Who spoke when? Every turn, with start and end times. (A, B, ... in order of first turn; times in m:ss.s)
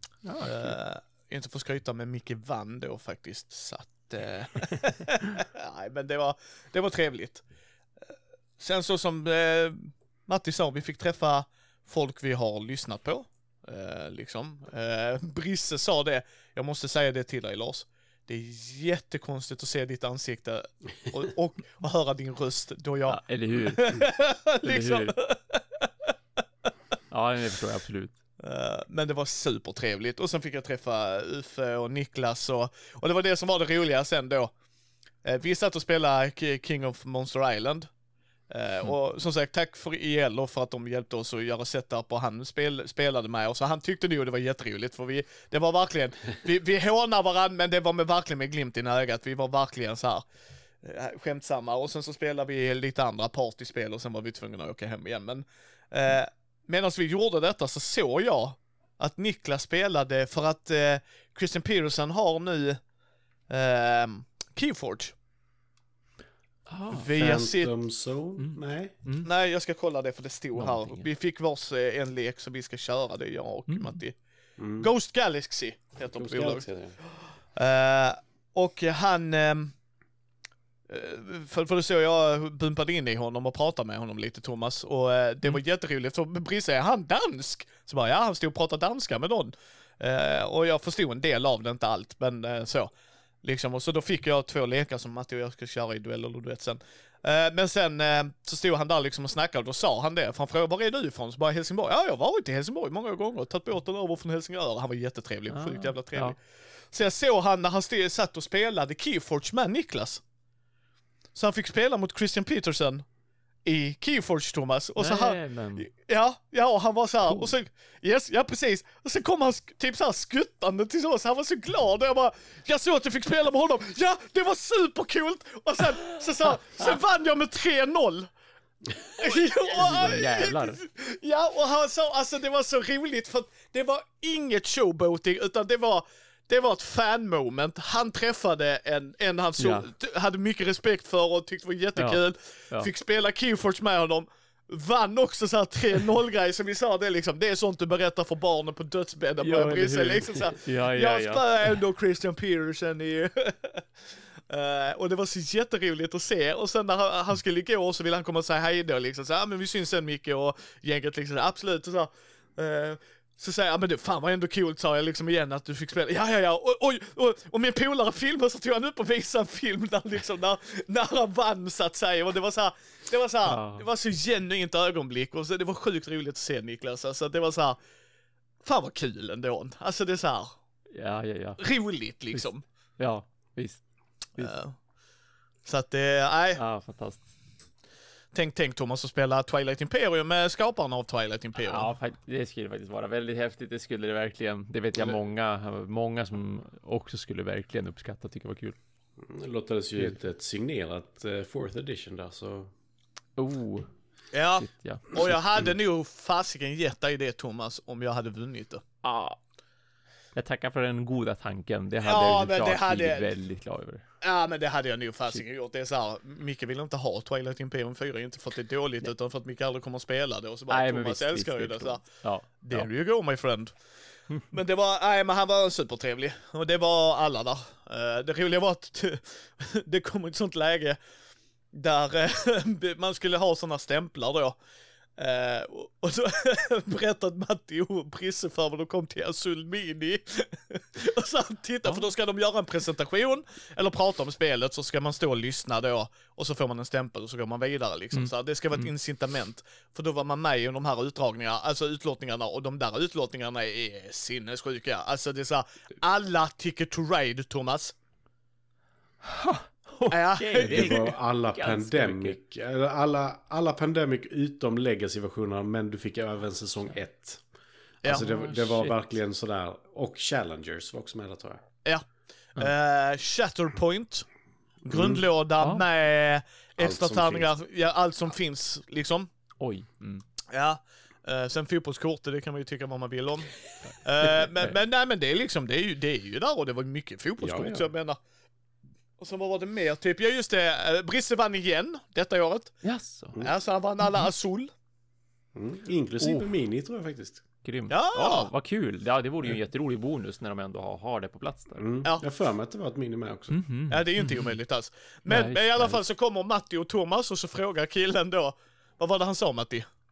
0:00.2-0:00.7 A
0:00.4-0:07.4 B
0:08.1-0:26.1 B
0:23.1-0:25.2 A
0:27.1-0:28.2 A
0:28.4-0:34.5 B
0:35.2-0:37.9 B
0:38.5-0:50.2 B
0:50.8-1:02.8 B
1:03.5-1:05.2 B
1:06.7-1:07.1 A
1:06.9-1:07.7 B
1:07.1-1:08.9 C
1:08.4-1:09.3 A
1:09.2-1:14.2 B
1:10.6-1:11.1 A
1:13.7-1:14.0 A
1:14.6-1:14.9 C
1:14.8-1:19.8 B
1:16.0-1:17.0 C
1:20.9-1:32.9 B
1:33.4-1:50.2 B
1:45.5-1:46.4 A
1:51.3-1:53.0 B
1:53.6-2:08.3 B
1:55.0-1:55.9 A
1:57.2-1:57.5 A
2:09.1-2:57.8 B
2:09.7-2:10.8 A
2:19.6-2:19.9 A
2:29.4-2:31.7 A
2:53.4-2:53.8 A
2:58.6-3:00.6 B
3:00.9-3:01.6 A
3:01.6-3:02.6 B
3:03.0-3:04.5 A
3:04.4-3:04.8 B
3:05.6-3:06.6 B
3:06.6-3:07.2 A
3:08.3-3:11.9 B
3:11.6-3:18.8 A
3:19.2-3:22.7 C
3:23.4-3:23.9 A
3:24.3-3:28.8 B
3:24.6-3:25.3 A
3:29.0-3:29.4 A
3:30.3-3:34.0 A
3:32.0-3:33.3 B
3:34.2-3:43.8 B
3:40.7-3:42.9 A
3:44.5-3:51.0 B
3:51.7-3:54.6 B
3:55.2-4:17.9 B
4:08.1-4:08.9 A
4:19.2-4:22.4 A
4:20.1-4:21.1 B
4:20.6-4:27.4 C
4:28.0-4:31.6 C
4:28.1-4:28.9 A
4:31.8-4:34.3 B
4:34.8-4:39.3 B
4:34.9-4:35.2 C
4:36.8-4:37.5 C
4:39.6-4:40.2 A
4:40.5-4:48.2 B
4:44.4-4:44.7 A
4:47.4-4:47.9 C
4:49.2-4:52.8 B
4:52.8-4:53.4 A
4:53.4-4:54.7 B
4:54.0-4:54.3 A
4:55.5-4:57.4 C
4:56.2-4:56.5 A
4:57.6-5:01.8 A
4:57.9-4:58.5 B
5:01.8-5:03.6 C
5:03.5-5:04.6 A
5:03.9-5:09.9 B
5:05.3-5:06.0 A